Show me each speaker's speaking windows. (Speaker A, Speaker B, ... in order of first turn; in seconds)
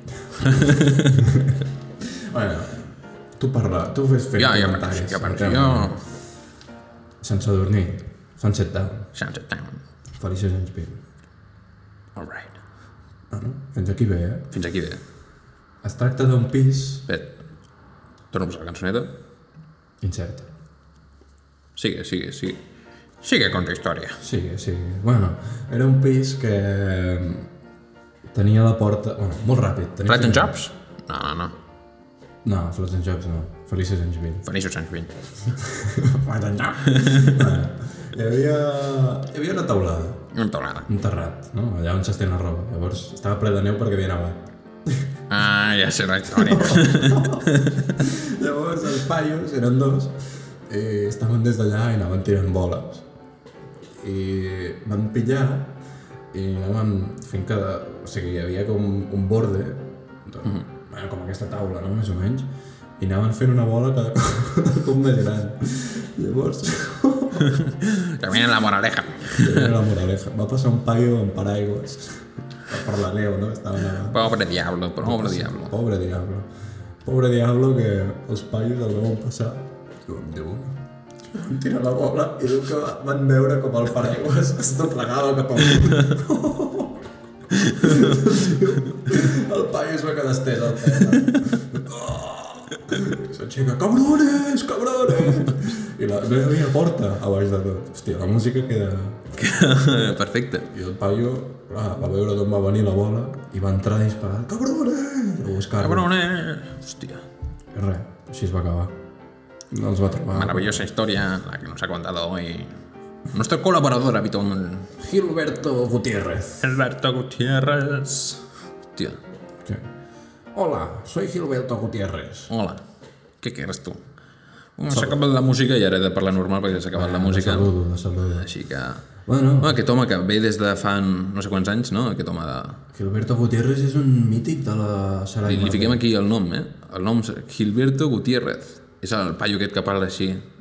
Speaker A: 0.2-6.0, 7.2-9.1, 10.2-11.0, 13.3-14.5, 15.8-17.1, 20.0-20.5, 24.2-27.5, 28.3-30.5, 32.4-34.4, 35.4-40.2, 40.9-45.1, 46.3-53.0, 53.9-55.8, 56.3-67.7, 69.3-74.2, 75.0-76.5, 77.0-99.3, 100.7-106.1, 107.7-108.9, 109.7-110.8, 115.0-116.7, 120.5-122.5, 124.9-125.2, 126.9-128.5, 129.2-129.8, 132.9-136.0
Speaker B: 0.4-1.3, 4.3-6.0, 9.1-9.8, 12.2-12.6, 14.5-15.0, 17.1-17.3, 18.3-19.1, 21.8-22.6, 23.2-24.2, 30.0-31.5, 34.4-35.1, 36.9-37.4, 40.3-40.9, 45.3-48.0, 67.4-69.7, 74.0-75.7, 87.5-88.3, 91.1-91.5, 99.3-100.7, 105.8-107.2, 110.3-112.8, 113.3-114.9, 116.6-119.2, 122.5-122.8, 123.4-124.0, 124.8-127.7, 128.3-129.0, 129.6-132.8, 135.4-140.4